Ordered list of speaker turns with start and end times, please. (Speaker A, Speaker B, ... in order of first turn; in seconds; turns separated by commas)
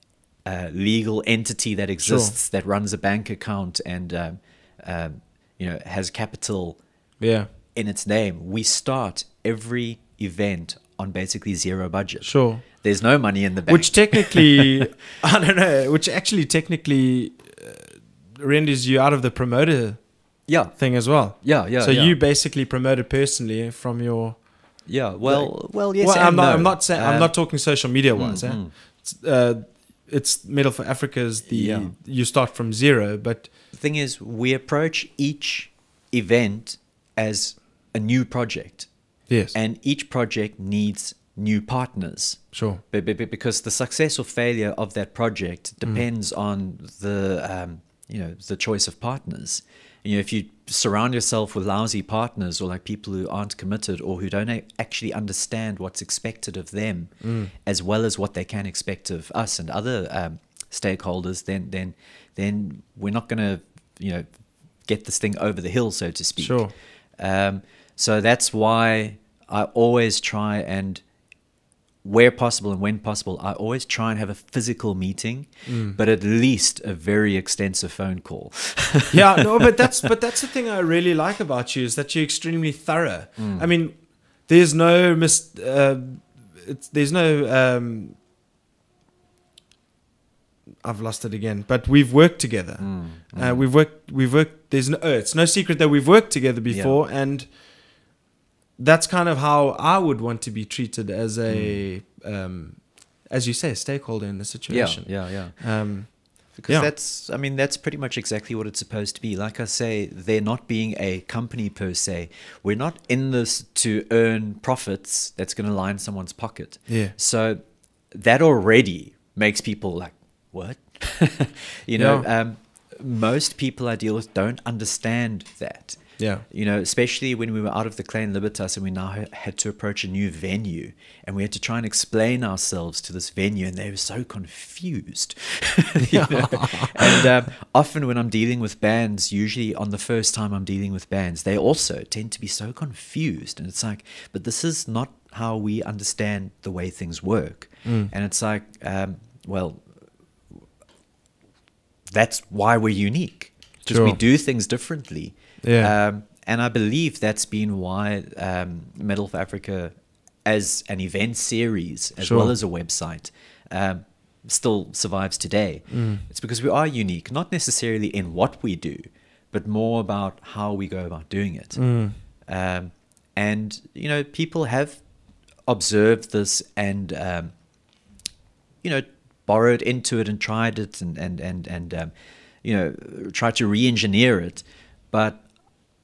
Speaker A: 0.4-6.8, Speaker B: 2.0-2.3, Speaker B: 7.2-7.5, Speaker A: 7.7-14.8, Speaker B: 12.2-12.6, Speaker B: 13.7-20.0, Speaker A: 20.5-20.7, Speaker B: 20.8-24.4, Speaker A: 21.4-22.2, Speaker A: 24.9-27.3, Speaker B: 25.2-33.5, Speaker A: 28.1-28.7, Speaker A: 31.5-31.9, Speaker A: 33.7-38.9, Speaker B: 39.3-39.5, Speaker A: 39.5-64.2, Speaker B: 42.5-42.8, Speaker B: 57.2-57.5, Speaker A: 64.8-66.7, Speaker B: 66.4-66.7, Speaker A: 67.2-71.0, Speaker A: 72.0-79.7, Speaker B: 75.7-76.0, Speaker B: 79.1-88.2, Speaker A: 83.4-83.7, Speaker B: 90.8-97.5, Speaker A: 92.8-93.7, Speaker A: 96.7-97.0, Speaker B: 98.8-106.9, Speaker A: 101.5-101.8, Speaker A: 104.7-105.6, Speaker A: 106.5-117.6, Speaker B: 116.9-117.1, Speaker A: 118.1-149.8, Speaker B: 122.0-122.2, Speaker B: 126.2-126.4, Speaker B: 136.0-137.2, Speaker B: 147.8-148.1, Speaker A: 152.1-159.9, Speaker B: 153.8-154.2, Speaker B: 155.6-155.9, Speaker A: 160.4-171.8, Speaker B: 162.2-162.5, Speaker B: 165.9-166.2, Speaker B: 171.8-172.2, Speaker A: 172.5-175.0, Speaker A: 175.7-177.5, Speaker A: 178.8-182.1, Speaker A: 182.6-185.4